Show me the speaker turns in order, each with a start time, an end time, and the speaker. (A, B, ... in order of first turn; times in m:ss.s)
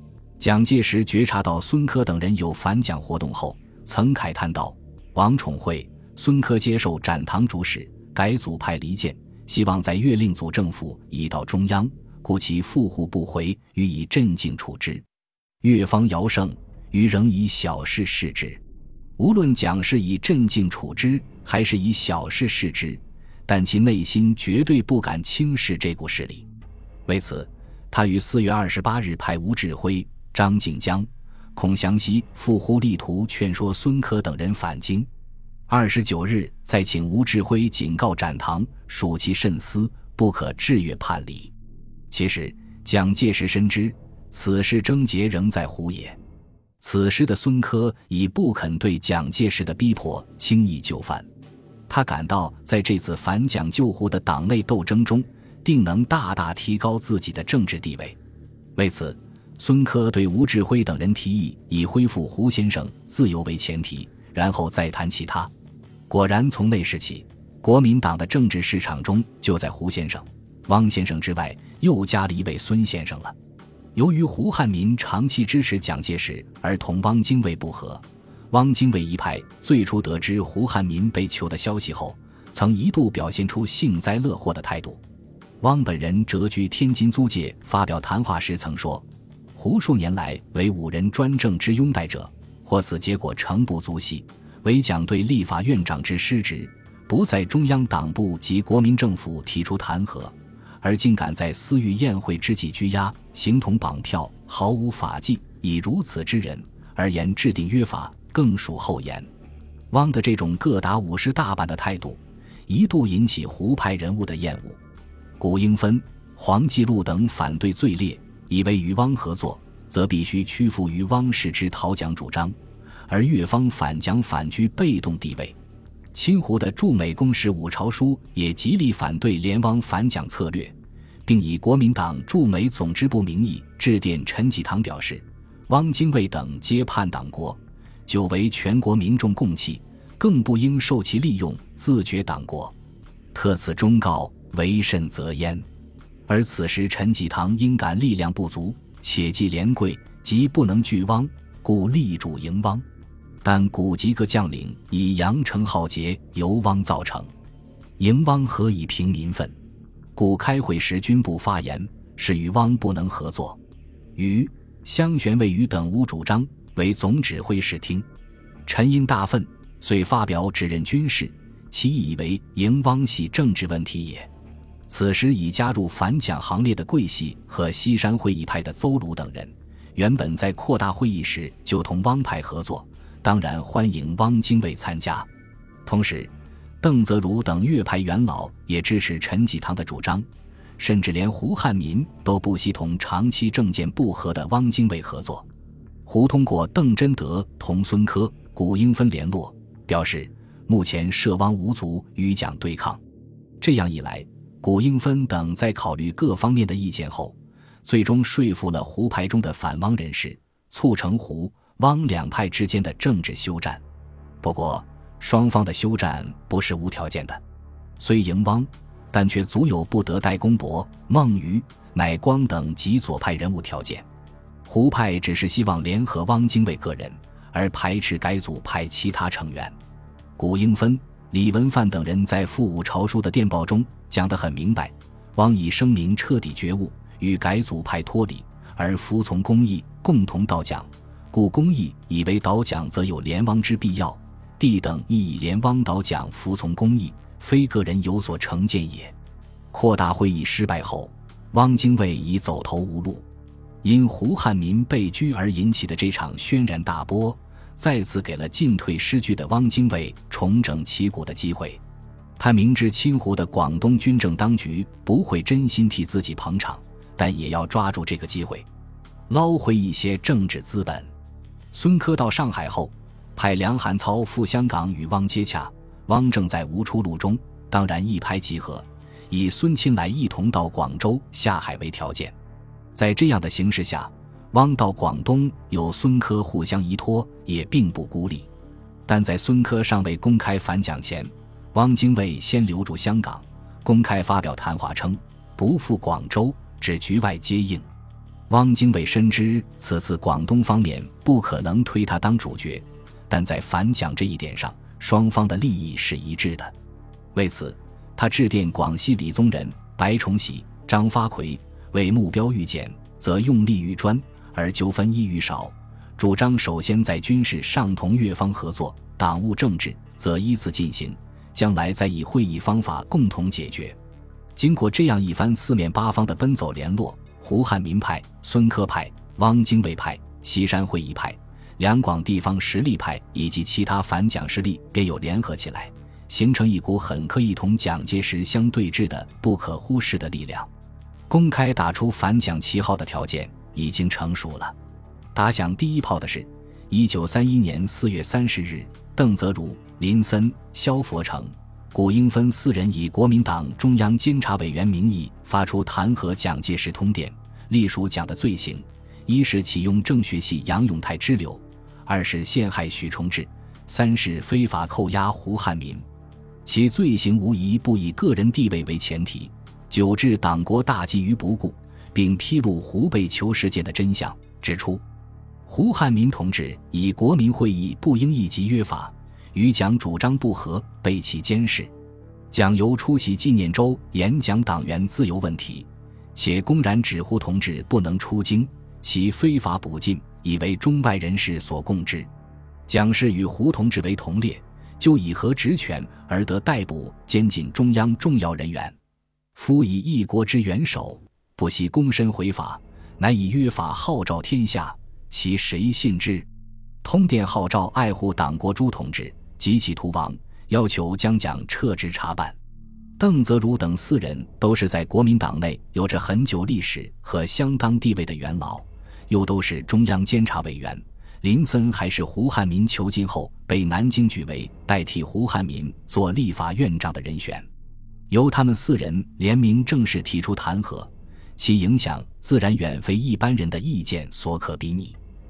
0:00.4-0:15.0 A
0:15.6-0:18.6 A
0:19.2-0:26.5 A
0:27.1-0:35.1 A
0:35.7-0:41.5 A
0:42.1-0:46.2 A
0:46.8-0:51.3 A
0:51.9-0:58.2 A
0:58.8-1:05.5 A
1:06.1-1:13.4 A
1:14.0-1:25.0 A
1:25.6-1:49.3 A
1:49.9-1:54.8 A
1:55.4-2:02.6 A
2:03.1-2:05.6 A
2:06.1-2:10.8 A
2:11.3-2:22.8 A
2:23.3-2:25.6 A
2:26.3-2:32.8 A
2:33.4-2:37.3 A
2:38.0-2:39.6 A
2:40.2-2:43.6 A
2:44.2-2:48.1 A
2:48.7-2:54.3 A
2:54.9-3:05.3 A
3:05.8-3:15.5 A
3:16.1-3:23.0 A
3:23.6-3:33.8 A
3:34.4-3:37.4 A
3:38.0-3:44.1 A
3:44.7-3:49.8 A
3:50.4-4:09.1 A
4:09.7-4:13.2 A
4:13.8-4:21.8 A
4:22.4-4:28.7 A
4:29.3-4:31.1 A
4:31.7-4:42.4 A
4:42.9-4:48.5 A
4:49.1-4:57.9 A
4:58.5-5:06.7 A
5:07.3-5:24.0 A
5:24.6-5:40.7 A
5:41.3-5:44.8 A
5:45.3-6:06.0 A
6:06.6-6:15.0 A
6:15.7-6:21.9 A
6:22.5-6:32.3 A
6:32.9-6:39.0 A
6:39.6-6:46.5 A
6:47.0-6:52.6 A
6:53.2-7:07.7 A
7:08.3-7:15.2 A